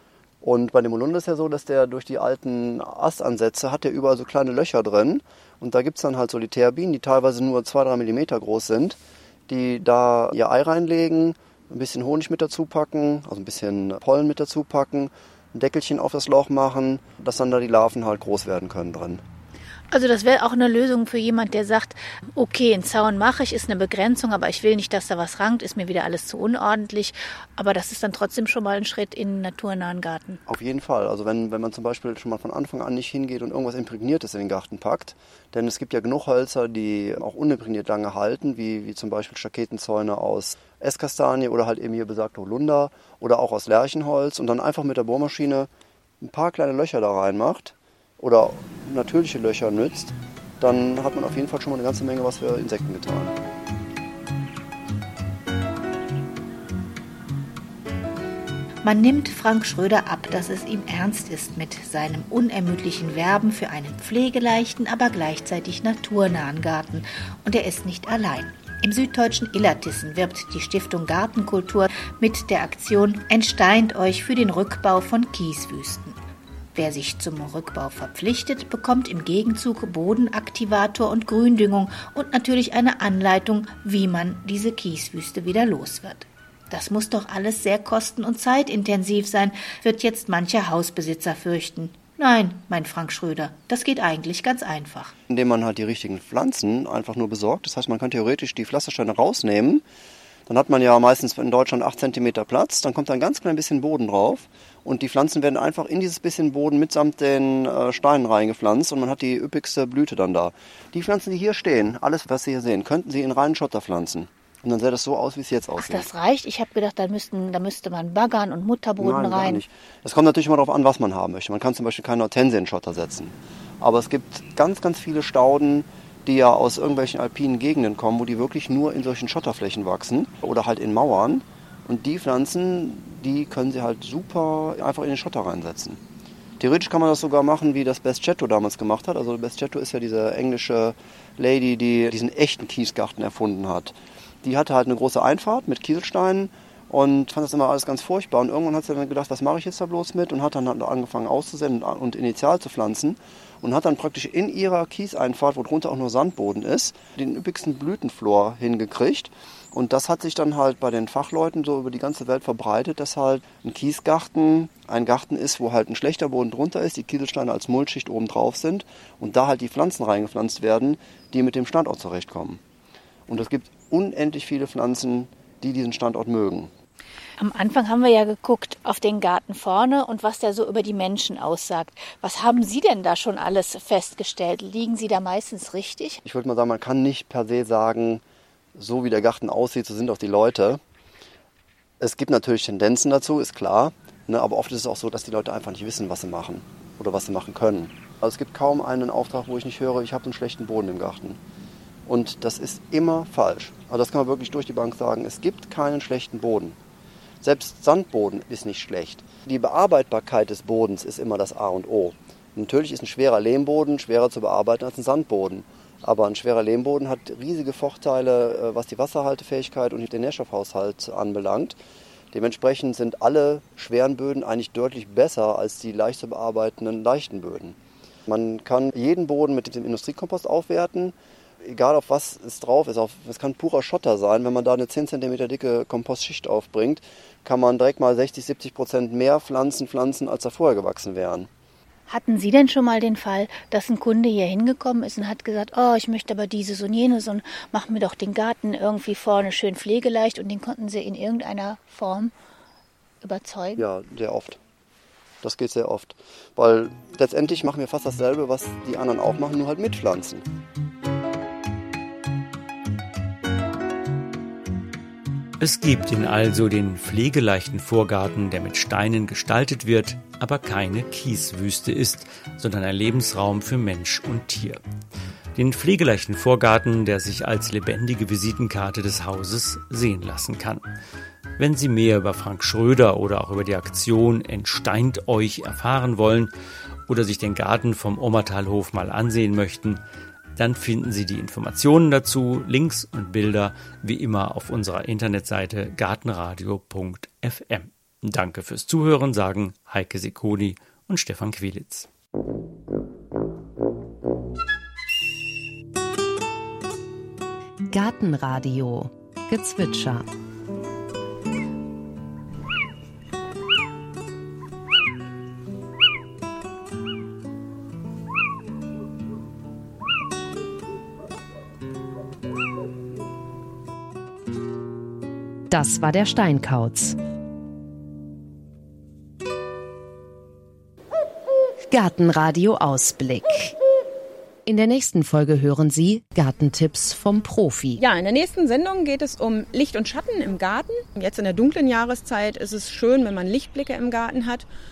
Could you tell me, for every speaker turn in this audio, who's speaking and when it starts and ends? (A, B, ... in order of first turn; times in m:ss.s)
0:00.4-0:19.2 A
0:19.9-0:30.4 B
0:30.5-0:45.7 A
0:46.2-0:53.4 A
0:58.8-1:16.2 B
1:16.7-1:35.1 B
1:35.3-1:39.8 A
1:40.5-1:56.1 A
1:55.8-1:59.6 B
1:59.0-2:16.0 A
2:16.6-2:52.6 A
2:53.3-2:56.7 A
2:57.4-3:06.2 B
3:06.2-3:08.2 A
3:08.8-3:10.8 A
3:12.0-3:21.4 A
3:22.1-3:26.8 A
3:27.4-3:41.8 A
3:42.3-4:01.5 A
4:02.1-4:12.3 B
4:13.2-4:13.8 B
4:13.8-4:14.6 A
4:15.4-4:20.5 A
4:25.6-4:34.8 C
4:35.6-4:40.8 C
4:41.6-4:46.5 C
4:47.1-4:50.0 C
4:50.6-5:02.1 C
5:07.9-5:10.3 D
5:25.7-5:27.2 D
5:31.9-5:33.8 D
5:34.6-5:38.0 D
5:38.0-5:44.6 E